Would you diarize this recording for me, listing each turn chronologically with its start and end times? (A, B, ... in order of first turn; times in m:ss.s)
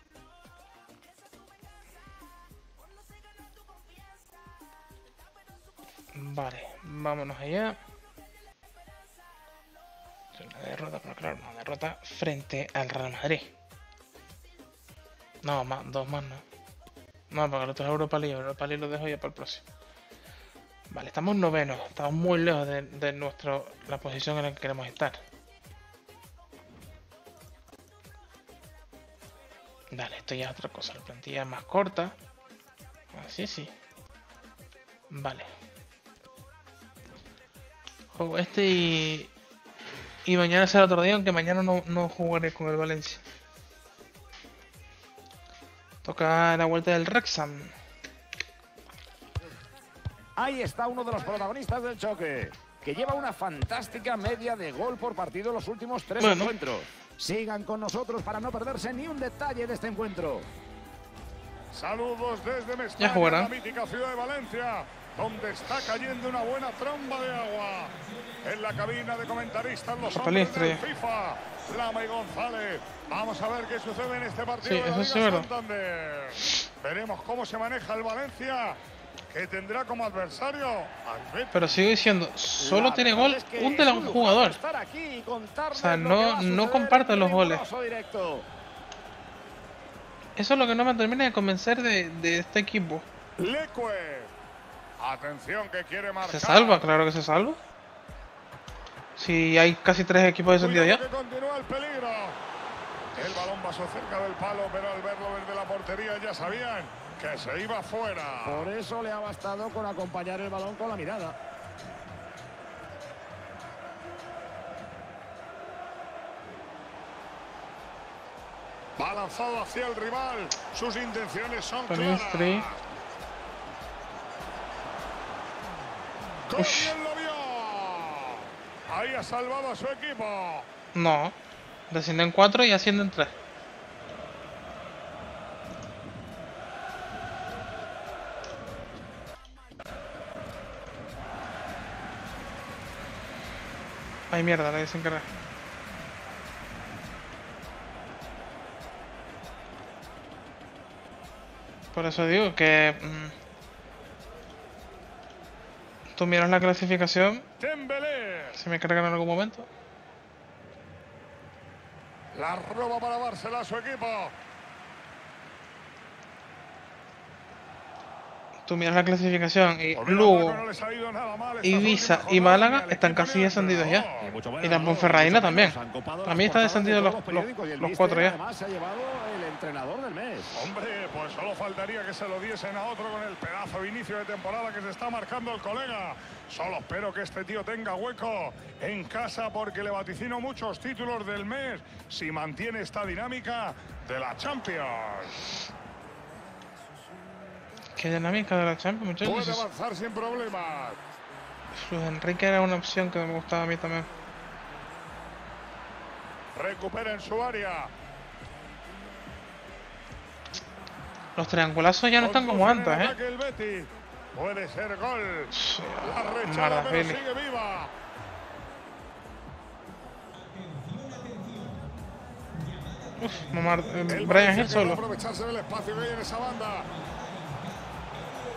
0:06.1-0:07.8 A
0:10.3-0:13.5 A
0:15.4-0:16.4 A
0:17.3-0:19.6 A
0:20.9-0:25.2 A
0:29.9-0:32.2 A
0:33.1-0:33.7 A
0:35.1-0:35.5 A
0:38.1-0:39.3 A
0:40.2-0:43.2 A
0:46.0-0:47.7 A
0:50.4-1:00.5 B
0:56.2-0:56.5 A
1:01.7-1:18.8 C
1:03.0-1:03.5 A
1:10.1-1:10.8 A
1:14.6-1:15.5 A
1:19.3-1:21.8 C
1:21.5-1:24.6 A
1:22.6-1:28.4 B
1:25.7-1:27.6 A
1:30.4-1:33.0 A
1:33.4-1:34.3 C
1:35.0-1:36.8 C
1:36.2-1:37.6 A
1:39.2-1:41.0 A
1:40.6-1:42.4 C
1:43.1-1:48.7 C
1:48.4-1:51.4 B
1:59.0-2:02.8 C
2:01.9-2:02.7 A
2:06.5-2:10.7 C
2:06.6-2:06.9 A
2:10.9-2:11.4 A
2:11.9-2:13.3 A
2:24.3-2:25.3 A
2:31.9-2:33.3 A
2:36.2-2:37.4 A
2:37.6-2:38.6 C
2:38.5-2:39.7 A
2:42.3-2:44.3 C
2:48.6-2:50.6 A
2:50.0-2:54.3 C
2:51.6-2:54.0 A
2:54.2-3:00.5 B
2:54.6-2:58.4 A
3:00.5-3:15.4 C
3:17.9-3:19.6 A
3:19.2-3:21.0 C
3:21.7-3:24.1 A
3:26.6-3:27.9 C
3:31.4-3:33.1 A
3:32.2-3:37.9 C
3:35.5-3:37.2 A
3:43.2-3:45.0 A
3:44.1-3:46.9 C